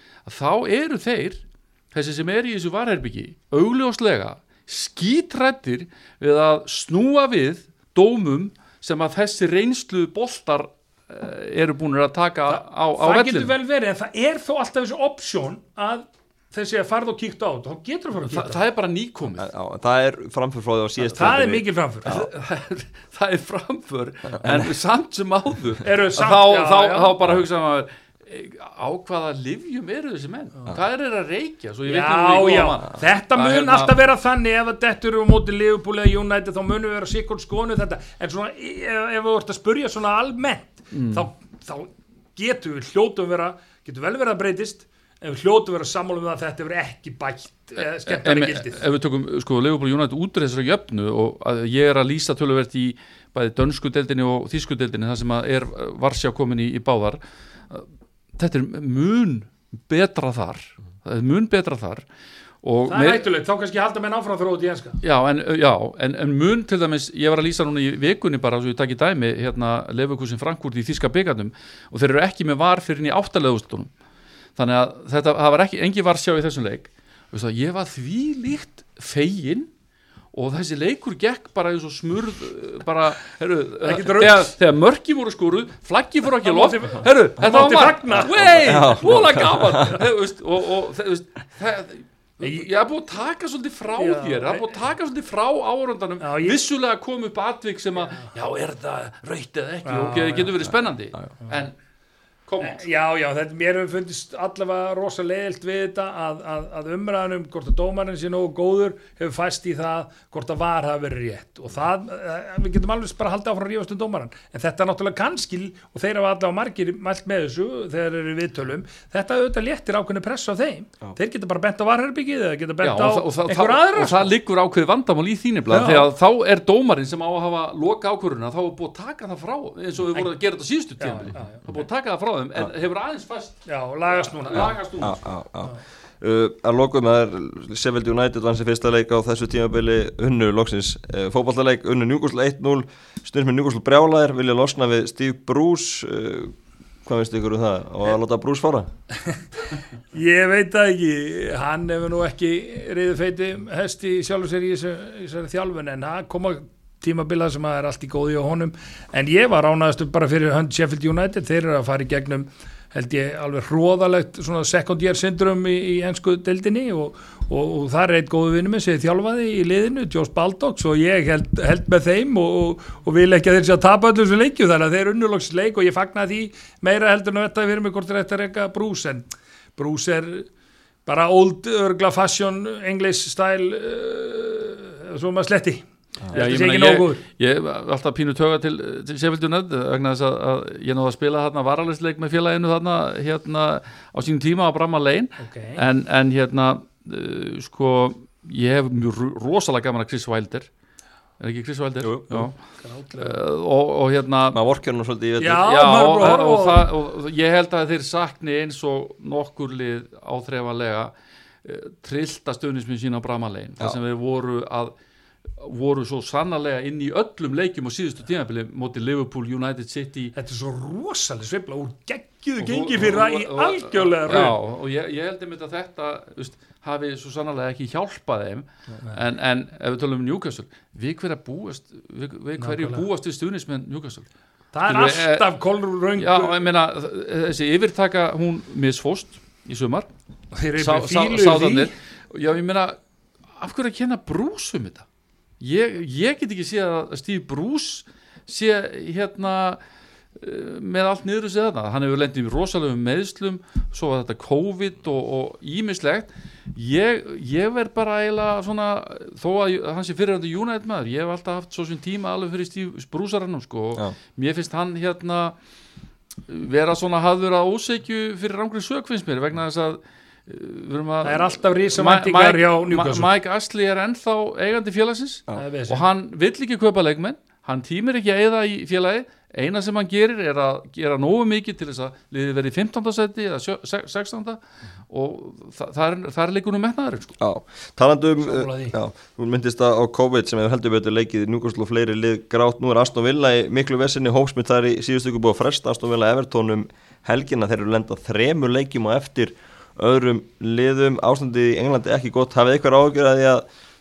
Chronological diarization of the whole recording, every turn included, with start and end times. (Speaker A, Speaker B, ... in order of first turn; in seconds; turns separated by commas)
Speaker A: 0.3-13.5, Speaker B: 12.5-18.6, Speaker A: 18.3-19.5, Speaker C: 19.4-21.6, Speaker B: 21.1-22.2, Speaker A: 22.1-34.0, Speaker C: 24.4-24.7, Speaker B: 25.8-27.1, Speaker B: 31.9-48.8, Speaker A: 40.9-41.3, Speaker A: 48.0-62.0, Speaker A: 62.6-63.2, Speaker B: 62.9-65.0, Speaker A: 65.0-73.9, Speaker A: 74.6-79.7, Speaker A: 80.3-101.8, Speaker B: 83.8-84.5, Speaker B: 86.4-88.4, Speaker C: 88.4-90.0, Speaker B: 94.0-94.7, Speaker B: 96.2-96.6, Speaker B: 99.9-100.5, Speaker A: 102.5-102.8, Speaker B: 102.6-124.3, Speaker A: 122.8-135.2, Speaker B: 125.7-126.1, Speaker B: 131.0-131.7, Speaker B: 133.7-134.8, Speaker C: 135.0-148.9, Speaker B: 150.1-180.5, Speaker B: 181.1-187.2, Speaker A: 186.3-200.7, Speaker B: 195.4-195.8, Speaker A: 201.4-202.6, Speaker C: 202.0-202.5, Speaker B: 202.8-203.4, Speaker A: 203.2-204.6, Speaker C: 204.5-205.7, Speaker B: 205.4-206.9, Speaker A: 205.6-211.1, Speaker A: 211.6-214.9, Speaker A: 215.6-220.3, Speaker B: 220.3-224.6, Speaker A: 222.6-234.3, Speaker B: 232.6-233.1, Speaker B: 234.7-236.6, Speaker A: 234.9-235.4, Speaker A: 236.2-240.1, Speaker B: 240.5-241.9, Speaker A: 240.8-243.0, Speaker A: 243.6-245.1, Speaker A: 245.6-249.8, Speaker A: 250.4-265.6, Speaker A: 266.5-287.4, Speaker B: 271.2-273.3, Speaker B: 275.6-276.0, Speaker C: 287.4-303.6, Speaker B: 288.4-289.0